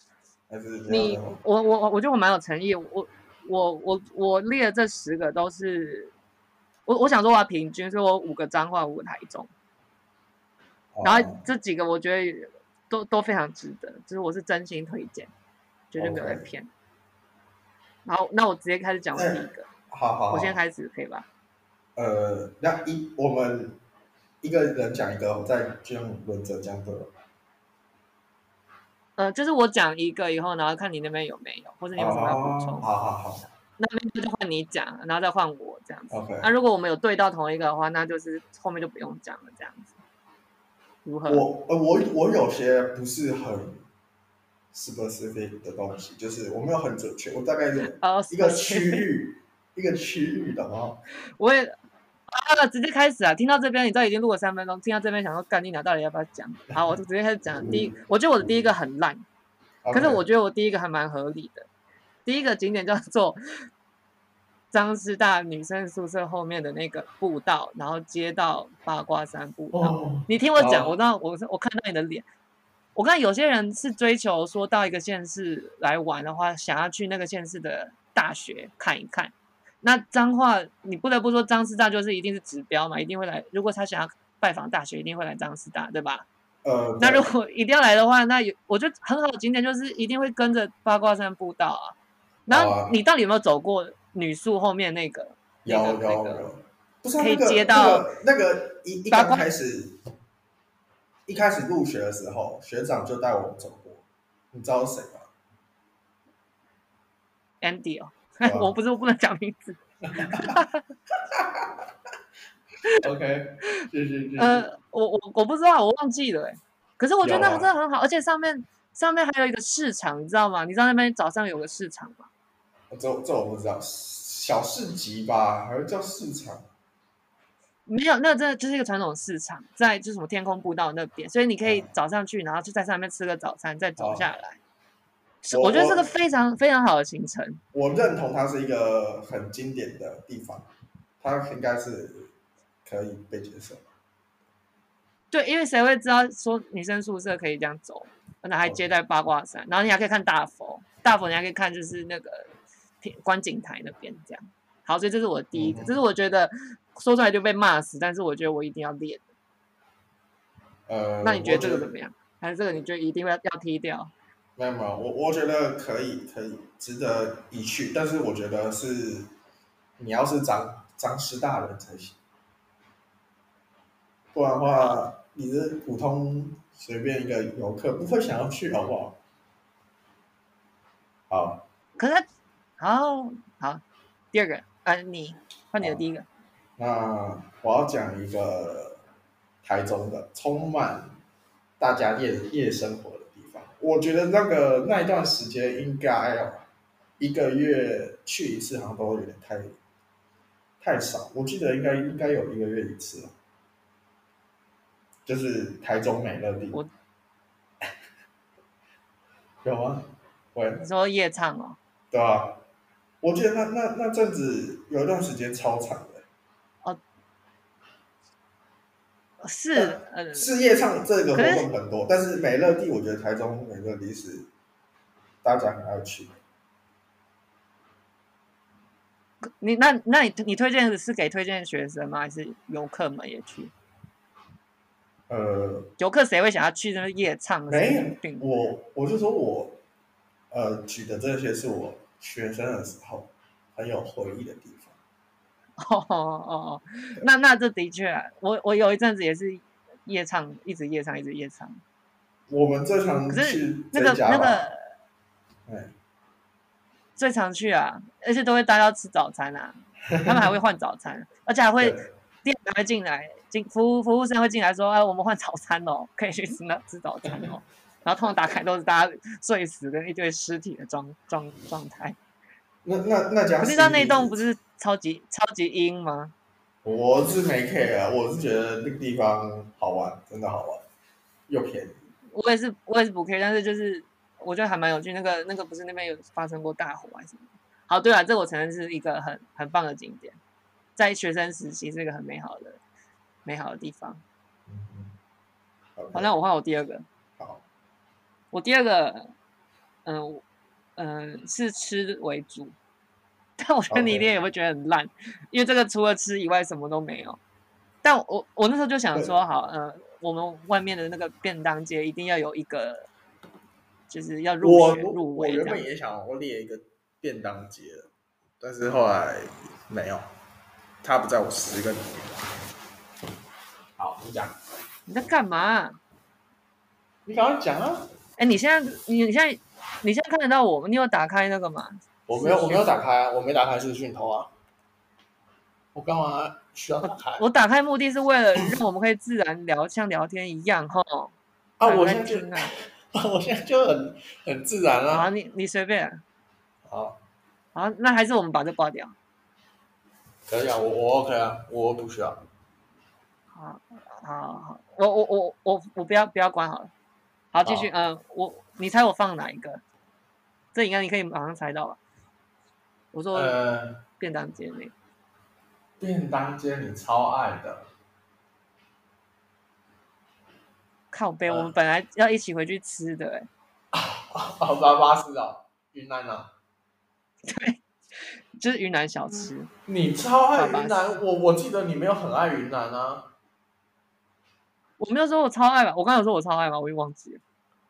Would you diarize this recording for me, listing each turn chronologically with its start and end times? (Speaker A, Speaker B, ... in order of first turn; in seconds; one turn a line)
Speaker A: 0.5-1.4
Speaker B: 0.9-6.1
Speaker B: 6.9-9.5
Speaker A: 10.9-11.4
Speaker B: 11.0-15.3
Speaker B: 15.9-16.7
Speaker A: 16.0-16.5
Speaker B: 18.1-19.7
Speaker A: 19.1-20.6
Speaker B: 20.3-21.3
Speaker A: 22.0-23.8
Speaker A: 24.4-27.1
Speaker B: 29.2-32.9
Speaker A: 31.9-33.5
Speaker B: 33.8-40.0
Speaker A: 36.1-36.5
Speaker B: 41.0-41.5
Speaker A: 41.3-43.9
Speaker A: 44.7-51.0
Speaker B: 48.0-49.1
Speaker B: 51.4-51.8
Speaker B: 52.3-59.2
Speaker A: 57.6-57.9
Speaker A: 59.8-60.2
Speaker B: 59.9-61.7
Speaker B: 62.3-63.4
Speaker B: 64.7-72.2
Speaker A: 69.7-71.0
Speaker B: 73.0-86.3
Speaker A: 86.6-87.3
Speaker B: 87.0-92.0
Speaker B: 92.5-96.5
Speaker A: 92.5-93.0
Speaker A: 95.7-100.0
Speaker B: 97.2-98.1
Speaker B: 99.1-99.5
Speaker A: 101.3-105.3
Speaker B: 107.6-110.8
Speaker A: 108.4-108.8
Speaker A: 110.1-110.6
Speaker A: 111.3-111.8
Speaker A: 113.0-114.7
Speaker B: 114.4-122.3
Speaker A: 117.2-117.7
Speaker A: 122.9-126.7
Speaker B: 127.9-134.6
Speaker A: 131.6-131.9
Speaker A: 134.0-134.3
Speaker B: 135.4-137.6
Speaker A: 135.5-136.2
Speaker A: 137.7-140.7
Speaker A: 141.2-142.3
Speaker A: 142.8-143.8
Speaker B: 145.3-152.5
Speaker B: 153.0-159.2
Speaker A: 155.5-156.0
Speaker A: 160.9-161.9
Speaker B: 161.2-164.1
Speaker A: 164.6-169.3
Speaker A: 170.0-172.2
Speaker A: 174.3-179.2
Speaker B: 174.7-175.0
Speaker A: 181.3-181.6
Speaker B: 182.0-182.2
Speaker B: 182.8-186.3
Speaker A: 186.8-189.0
Speaker A: 189.6-191.2
Speaker A: 191.8-196.6
Speaker A: 197.2-199.8
Speaker A: 200.8-203.3
Speaker A: 205.3-206.8
Speaker A: 209.6-210.8
Speaker B: 210.8-211.8
Speaker A: 212.1-212.6
Speaker A: 213.2-216.2
Speaker B: 219.4-220.5
Speaker A: 219.7-224.5
Speaker B: 221.3-221.7
Speaker A: 225.4-226.3
Speaker B: 229.6-233.7
Speaker A: 235.3-235.9
Speaker B: 236.0-238.4
Speaker A: 237.7-239.8
Speaker A: 240.5-244.9
Speaker B: 245.8-251.8
Speaker A: 252.5-254.7
Speaker B: 253.3-254.8
Speaker A: 255.7-255.9
Speaker B: 257.2-272.2
Speaker A: 260.1-260.4
Speaker A: 261.8-262.1
Speaker A: 272.9-274.4
Speaker B: 273.6-276.3
Speaker A: 276.9-280.8
Speaker A: 281.5-282.0
Speaker B: 282.3-290.4
Speaker B: 291.0-292.8
Speaker B: 293.4-294.2
Speaker A: 294.7-295.1
Speaker A: 296.0-296.3
Speaker B: 296.1-297.1
Speaker A: 297.4-297.6
Speaker B: 298.5-299.3
Speaker B: 300.1-300.4
Speaker B: 301.0-302.8
Speaker B: 303.6-307.4
Speaker A: 303.9-304.3
Speaker B: 308.0-313.1
Speaker B: 314.1-315.8
Speaker A: 314.6-318.1
Speaker A: 318.6-320.3
Speaker A: 321.0-322.5
Speaker A: 324.0-324.5
Speaker B: 325.1-326.0
Speaker A: 327.3-328.1
Speaker B: 328.4-332.9
Speaker A: 332.3-334.5
Speaker A: 335.9-337.4
Speaker B: 337.1-341.3
Speaker A: 341.8-345.3
Speaker B: 341.9-342.7
Speaker B: 345.1-346.2
Speaker A: 346.9-347.2
Speaker B: 347.8-349.1
Speaker A: 350.5-352.4
Speaker B: 353.5-356.9
Speaker B: 357.5-359.8
Speaker A: 357.6-357.9
Speaker B: 360.7-362.0
Speaker B: 363.1-363.6
Speaker A: 363.3-364.0
Speaker B: 364.2-364.9
Speaker A: 366.0-367.9
Speaker B: 371.1-373.5
Speaker A: 373.9-376.5
Speaker B: 377.5-377.8
Speaker B: 378.6-379.7
Speaker A: 379.9-383.3
Speaker B: 380.6-381.2
Speaker B: 385.0-387.4